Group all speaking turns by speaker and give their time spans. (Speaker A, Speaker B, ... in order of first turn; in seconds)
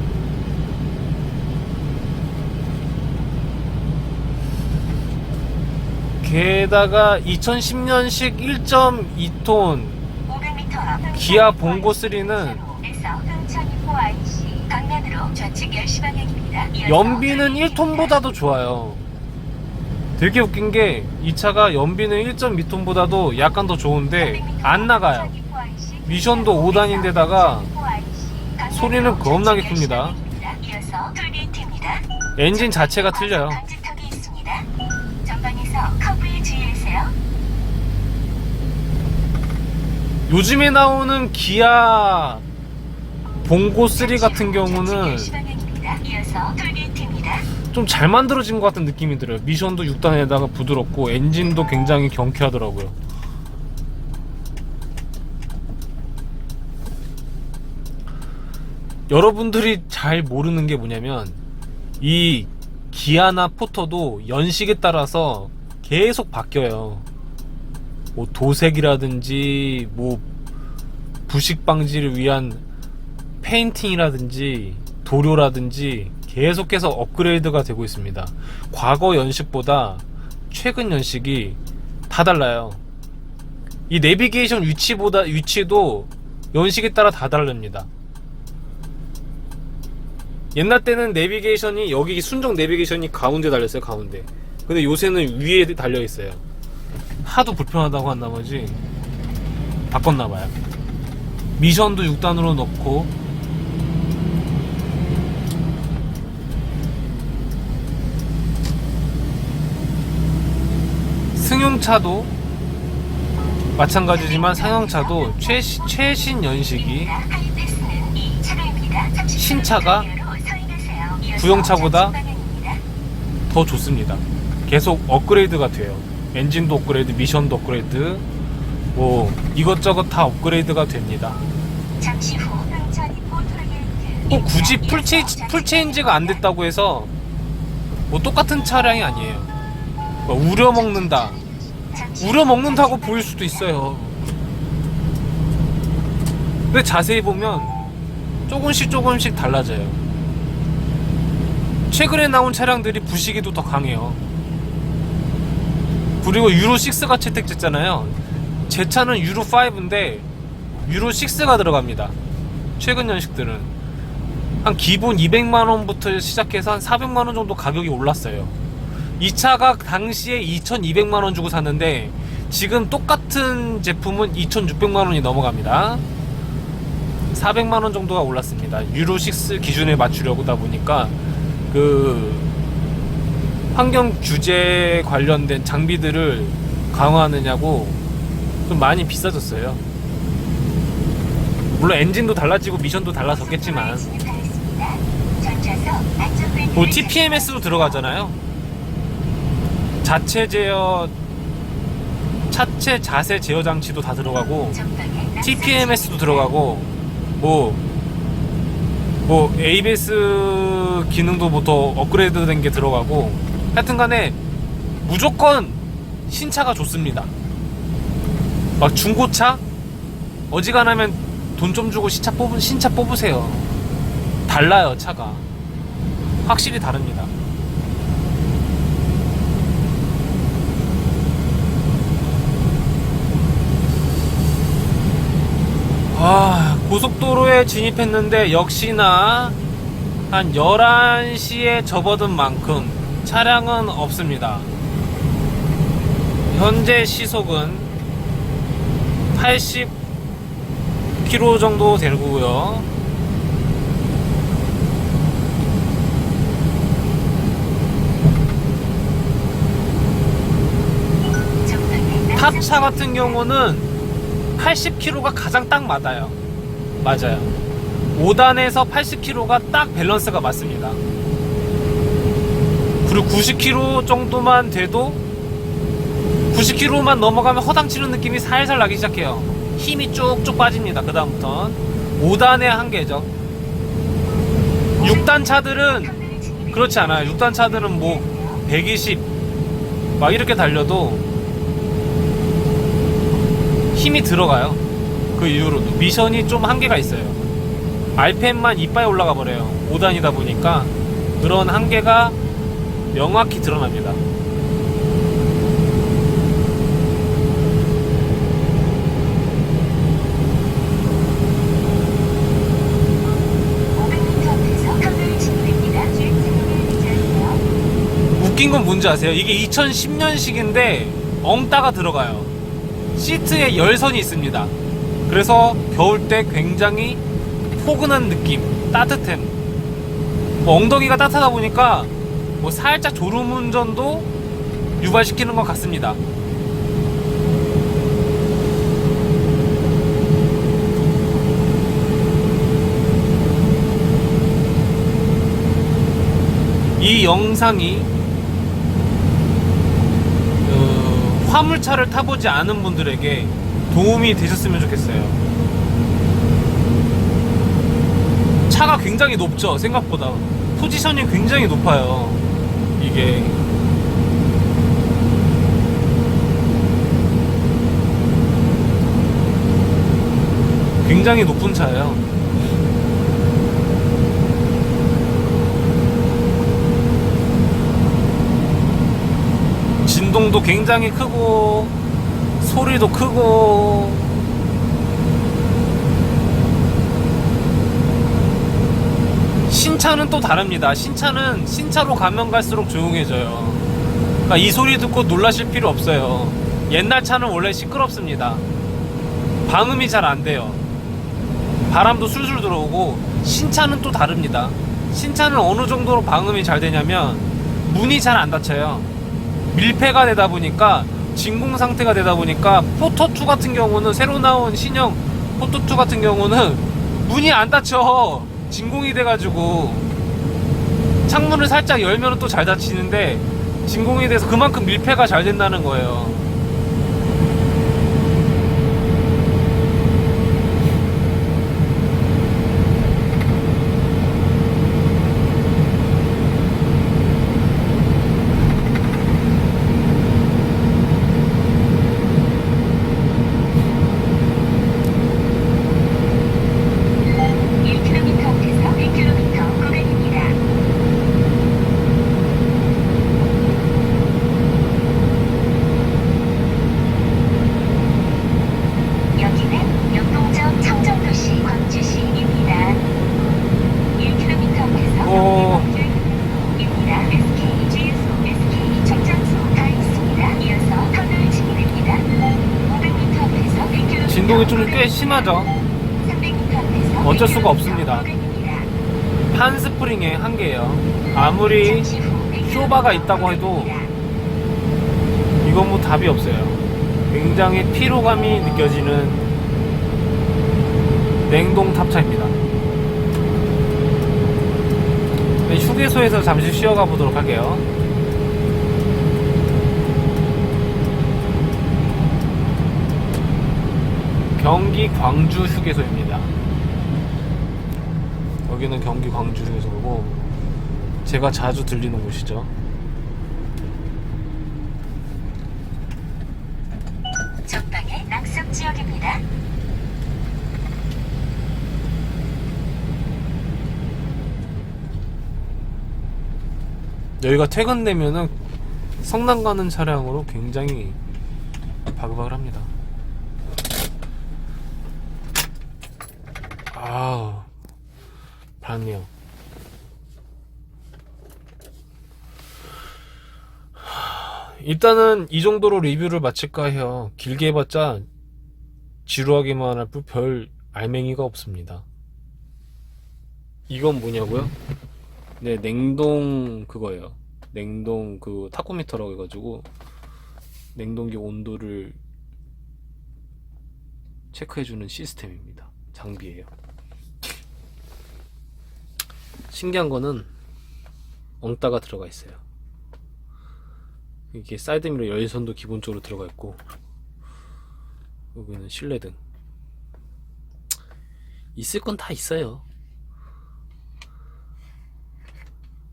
Speaker A: 6.2-10.1, 11.1-12.6, 16.8-19.0, 20.2-25.3, 26.1-27.7, 28.7-30.2, 32.4-33.6, 40.3-42.4, 43.4-45.4, 47.7-53.0, 59.1-61.4, 62.0-67.1, 68.1-70.2, 71.3-72.6, 73.4-82.8, 83.9-87.9, 90.5-96.4, 97.2-98.8, 99.9-100.5, 101.6-103.1, 111.3-112.3, 113.8-117.2, 119.3-120.1, 121.3-122.2, 123.5-128.2, 128.9-131.4, 134.3-137.1, 138.1-139.5, 140.2-141.4, 142.2-144.2, 146.7-147.8, 148.5-150.0, 151.9-154.2, 156.2-160.3, 160.8-162.2, 162.8-163.7, 164.6-168.6, 169.2-176.0, 177.3-181.2, 181.7-182.5, 183.7-188.0, 188.7-189.8, 191.7-194.1, 196.7-198.4, 200.0-201.1, 202.5-204.8, 205.4-207.8, 209.2-214.4, 215.0-217.3, 218.8-219.6, 220.5-223.7, 224.5-225.5, 226.4-227.3, 236.1-239.6, 240.3-244.7, 246.5-247.9, 249.3-250.0, 251.2-252.9, 262.3-263.9, 264.6-266.4, 267.0-267.5, 268.1-271.0, 273.0-275.2, 276.5-283.3, 285.0-286.2, 286.7-289.3, 290.2-291.3, 293.9-294.8, 295.3-297.4, 298.1-302.4, 303.1-304.2, 318.3-322.5, 323.1-324.7, 325.3-327.2, 327.8-329.6, 330.6-334.3, 335.0-336.2, 347.0-348.1, 350.6-355.4, 358.7-362.4, 363.0-363.6, 371.0-372.2, 380.0-381.9, 382.6-384.3, 389.7-393.9, 394.4-398.6, 399.6-400.8, 401.9-409.1, 409.7-420.1, 421.3-426.5, 465.2-465.9, 474.2-475.7, 477.2-478.3, 479.5-483.9, 485.6-489.4, 491.4-492.6, 495.6-497.9, 504.6-506.5, 508.6-510.4, 511.2-512.7, 527.4-528.5, 529.2-531.2, 532.1-532.9, 536.9-537.7, 538.8-539.3, 544.0-548.3, 549.2-552.0, 553.9-554.7, 555.6-559.9, 560.9-562.2, 564.5-566.7, 569.7-570.5, 571.6-572.6, 574.5-576.8, 578.5-579.4, 581.7-582.8
Speaker B: 10.3-18.1, 24.2-32.0, 32.5-34.7, 35.2-37.1, 44.0-47.5, 114.3-116.1, 117.0-122.8, 132.0-136.4, 141.0-143.5, 193.4-197.8, 204.8-206.5, 261.6-263.2, 286.0-288.6, 313.9-317.6, 447.8-450.6, 459.3-463.0, 464.2-475.2, 476.2-478.9, 481.9-484.1, 517.6-519.4